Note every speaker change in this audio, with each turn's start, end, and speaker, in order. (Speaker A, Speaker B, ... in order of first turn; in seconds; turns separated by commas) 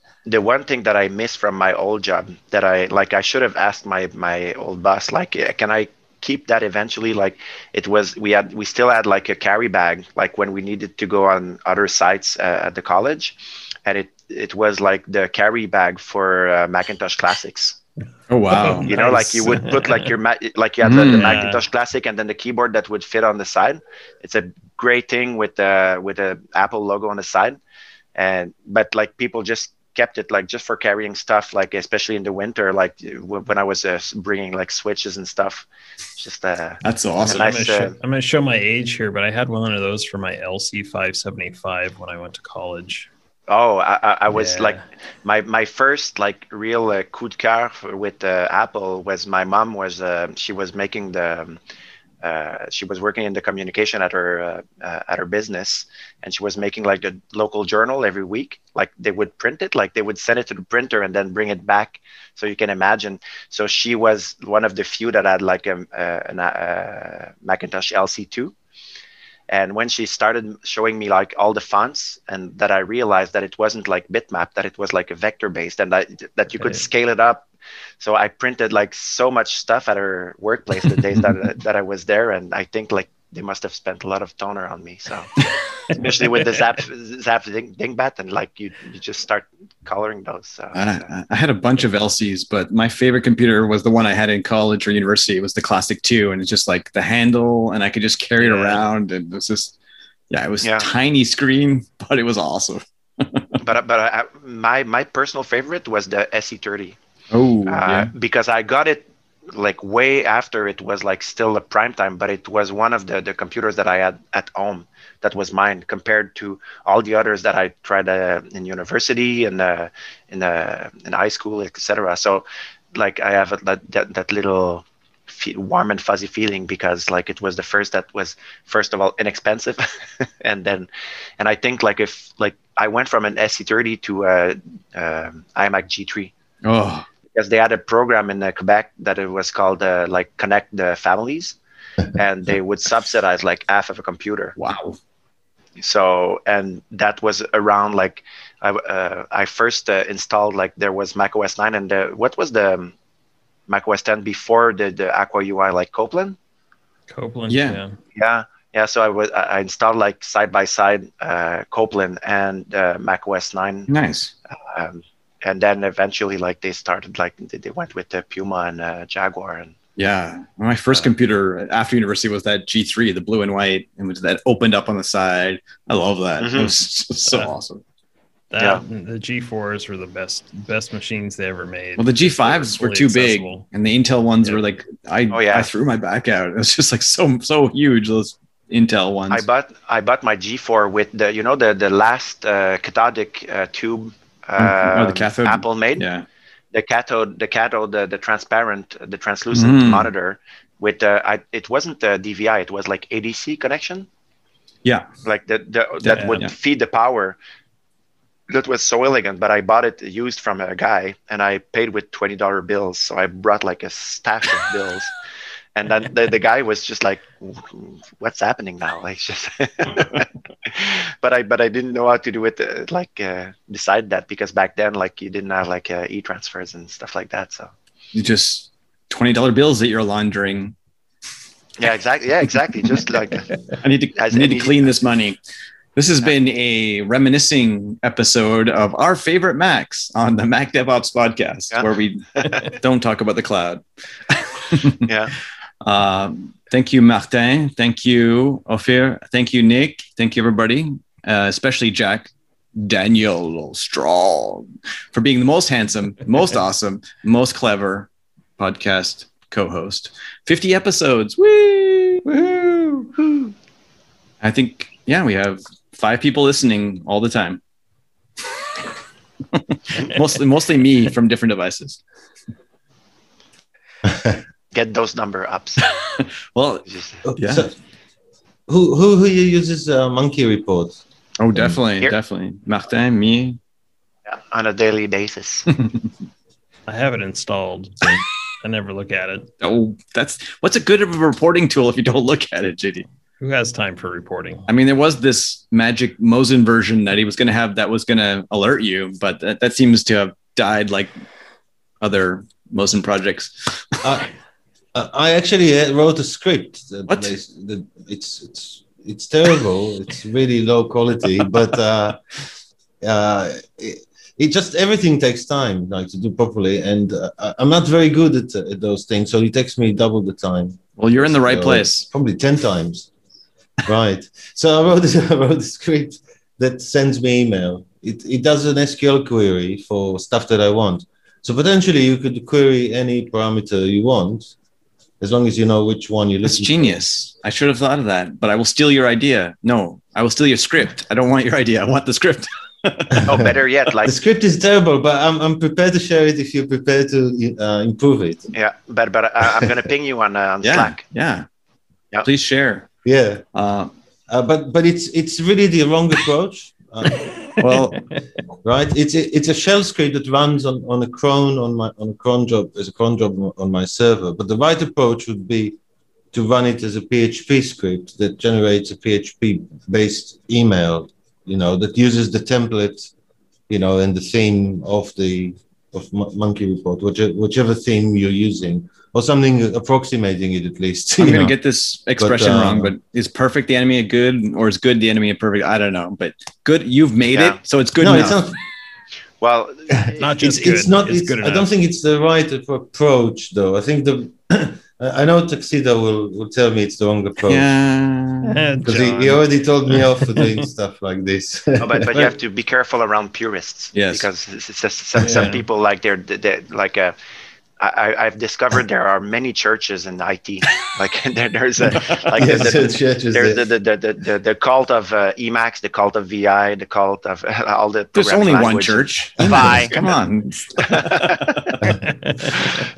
Speaker A: 0.3-17.8, Speaker B: 18.3-18.9, Speaker C: 18.5-20.1, Speaker A: 18.9-27.6, Speaker B: 20.8-21.4, Speaker C: 21.0-21.6, Speaker A: 28.2-35.7, Speaker A: 36.2-38.0, Speaker B: 36.8-37.5, Speaker C: 37.2-43.1, Speaker A: 43.5-51.6, Speaker C: 44.3-44.8, Speaker A: 52.2-68.5, Speaker A: 69.5-77.5, Speaker A: 78.0-85.3, Speaker A: 85.9-91.1, Speaker B: 90.7-99.8, Speaker C: 98.4-98.8, Speaker B: 100.3-103.5, Speaker A: 100.6-100.9, Speaker A: 103.6-107.0, Speaker B: 107.3-108.1, Speaker A: 107.7-129.9, Speaker A: 130.4-130.9, Speaker A: 131.4-136.3, Speaker B: 136.6-137.1, Speaker A: 137.3-141.6, Speaker A: 142.2-144.6, Speaker B: 144.6-145.0, Speaker A: 145.8-152.9, Speaker A: 153.7-156.4, Speaker C: 157.1-158.0, Speaker B: 157.5-157.8, Speaker A: 158.2-163.9, Speaker B: 163.9-164.3, Speaker A: 164.6-169.8, Speaker B: 170.0-177.8, Speaker A: 176.4-176.7, Speaker C: 177.3-177.6, Speaker C: 178.5-183.7, Speaker B: 182.0-189.5, Speaker A: 185.3-185.7, Speaker A: 189.3-196.1, Speaker B: 194.6-196.3, Speaker A: 196.7-204.1, Speaker B: 199.5-200.1, Speaker A: 205.2-207.4, Speaker B: 206.0-206.5, Speaker C: 206.1-206.4, Speaker A: 208.5-215.1, Speaker A: 215.8-227.7, Speaker B: 228.1-230.8, Speaker A: 231.8-233.5, Speaker B: 233.8-235.4, Speaker A: 234.1-234.9, Speaker B: 236.0-245.0, Speaker A: 241.7-242.7, Speaker A: 245.1-245.3, Speaker B: 245.8-262.3, Speaker C: 262.2-263.4, Speaker B: 264.4-267.6, Speaker B: 269.6-272.0, Speaker D: 274.0-274.4, Speaker A: 274.7-275.8, Speaker B: 276.0-277.7, Speaker A: 276.9-277.2, Speaker D: 277.3-277.7, Speaker D: 278.7-281.0, Speaker B: 281.4-283.6, Speaker A: 284.3-285.7, Speaker B: 285.7-286.1, Speaker C: 286.9-289.5, Speaker B: 289.6-293.1, Speaker C: 293.4-294.7, Speaker B: 294.7-301.1, Speaker B: 302.0-304.2, Speaker D: 304.0-304.3, Speaker D: 304.9-312.2, Speaker B: 307.1-307.3, Speaker D: 313.0-323.1, Speaker B: 321.0-322.1, Speaker D: 323.8-334.5, Speaker D: 335.2-337.0, Speaker B: 336.4-343.4, Speaker A: 343.2-344.1, Speaker D: 344.0-348.5, Speaker A: 348.5-351.0, Speaker B: 350.6-351.5, Speaker B: 352.2-352.9, Speaker D: 353.1-353.4, Speaker B: 353.6-353.9, Speaker D: 354.3-357.5, Speaker C: 357.6-358.0, Speaker B: 357.6-358.0, Speaker D: 358.6-365.8, Speaker D: 366.3-373.1, Speaker D: 373.7-381.6, Speaker B: 381.2-388.4, Speaker D: 382.2-382.9, Speaker A: 387.3-387.6, Speaker D: 388.0-388.6, Speaker A: 389.4-390.3, Speaker C: 390.2-391.7, Speaker D: 390.4-397.7, Speaker B: 397.5-398.7, Speaker C: 398.4-400.6, Speaker D: 398.8-402.3, Speaker A: 401.8-407.1, Speaker B: 403.9-404.3, Speaker C: 405.2-405.6, Speaker A: 407.8-420.1, Speaker D: 412.4-413.7, Speaker B: 418.1-421.8, Speaker A: 420.8-421.6, Speaker C: 421.9-422.7